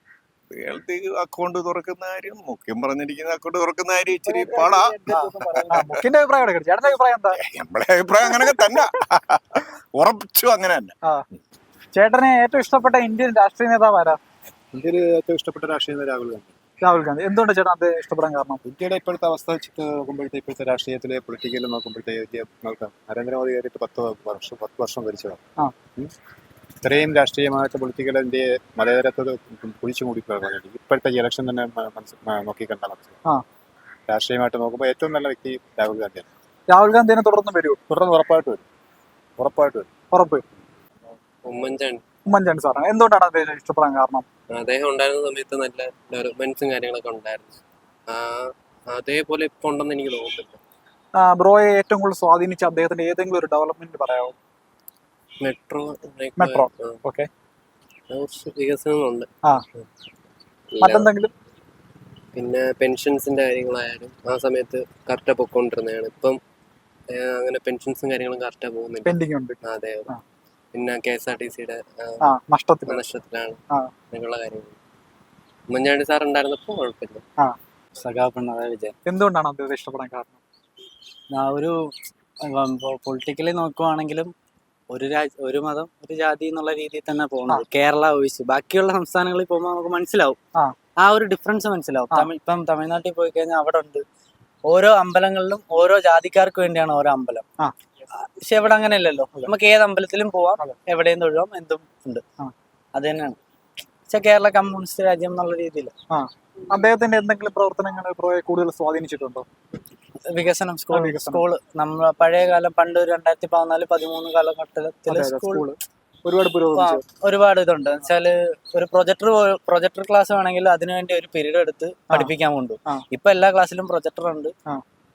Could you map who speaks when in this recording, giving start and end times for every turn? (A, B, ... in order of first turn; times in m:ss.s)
0:00.6-0:05.1 A
0:04.5-0:07.4 B
0:07.5-0:10.9 A
0:08.3-0:08.8 B
0:12.0-0:14.2 B
0:14.7-0:16.5 C
0:16.8-0:18.6 B
0:18.6-0:25.4 C
0:26.8-0:33.2 C
0:34.1-0:36.3 C
0:36.7-0:37.8 B
0:37.9-0:38.6 C
0:39.4-0:39.9 C
0:40.1-0:40.4 B
0:41.4-0:42.0 D
0:42.3-0:44.2 B
0:44.5-0:50.6 D
0:51.2-0:54.4 B
0:55.4-0:57.0 D
0:56.4-0:57.3 B
0:58.1-0:59.3 D
1:00.7-1:01.1 D
1:00.8-1:01.3 B
1:02.4-1:06.4 D
1:07.1-1:09.1 D
1:09.0-1:10.2 B
1:09.6-1:10.1 D
1:10.7-1:12.3 D
1:12.2-1:13.1 B
1:12.9-1:13.6 D
1:14.1-1:14.8 D
1:15.7-1:17.2 D
1:18.0-1:19.0 E
1:19.0-1:20.4 B
1:21.3-1:21.8 E
1:22.5-1:24.3 E
1:24.9-1:30.4 E
1:31.0-1:34.0 E
1:34.7-1:37.4 E
1:38.2-1:42.2 E
1:43.0-1:43.4 E
1:44.1-1:45.9 E
1:46.1-1:49.5 B
1:50.3-1:55.7 E
1:50.9-1:51.5 B
1:55.1-1:57.0 B
1:56.7-2:04.5 E